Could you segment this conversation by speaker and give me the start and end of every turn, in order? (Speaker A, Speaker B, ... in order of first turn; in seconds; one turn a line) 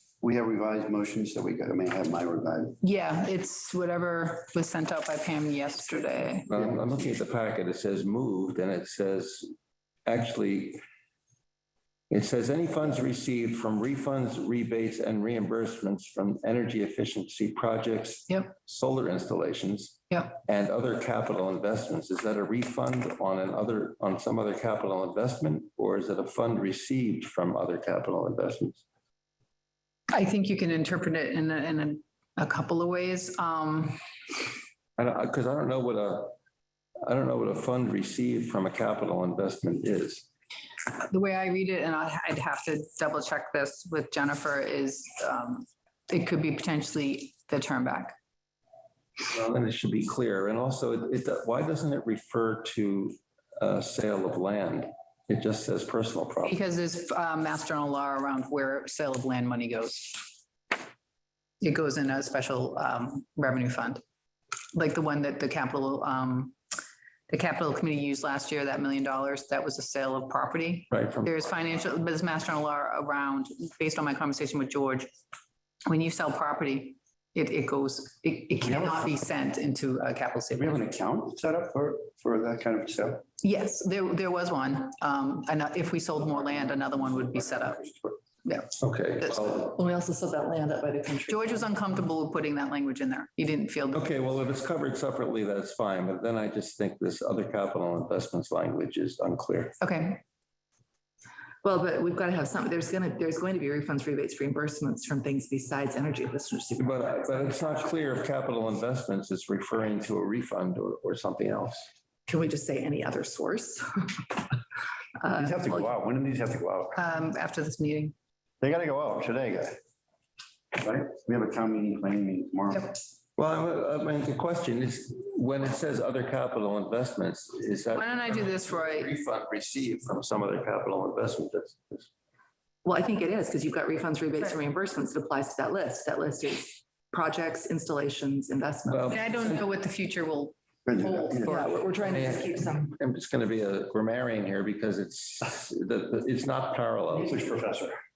Speaker A: 0.2-2.8
Speaker B: 2.8-6.5
Speaker C: 6.5-9.5
Speaker C: 10.1-10.8
Speaker C: 12.1-28.8
Speaker B: 30.1-34.0
Speaker C: 35.0-36.4
Speaker C: 37.0-40.2
Speaker B: 41.0-48.1
Speaker C: 49.2-56.6
Speaker B: 56.5-60.3
Speaker B: 61.6-64.0
Speaker B: 64.7-66.5
Speaker B: 67.3-75.1
Speaker C: 70.9-71.5
Speaker B: 75.8-80.8
Speaker A: 78.6-79.1
Speaker A: 80.5-83.2
Speaker B: 83.4-87.8
Speaker A: 86.2-88.2
Speaker B: 88.4-89.7
Speaker C: 88.8-89.7
Speaker D: 89.7-91.7
Speaker B: 91.3-94.1
Speaker C: 93.9-99.8
Speaker B: 99.8-100.2
Speaker D: 101.6-108.0
Speaker C: 106.8-111.9
Speaker D: 112.3-114.4
Speaker D: 115.2-115.9
Speaker A: 115.3-117.0
Speaker B: 117.0-118.1
Speaker A: 118.6-119.8
Speaker A: 120.7-123.0
Speaker C: 123.4-132.1
Speaker B: 128.0-129.1
Speaker D: 132.8-139.3
Speaker C: 138.9-139.7
Speaker B: 139.1-142.0
Speaker A: 140.8-141.7
Speaker D: 141.4-143.0
Speaker C: 141.5-147.4
Speaker A: 147.1-148.0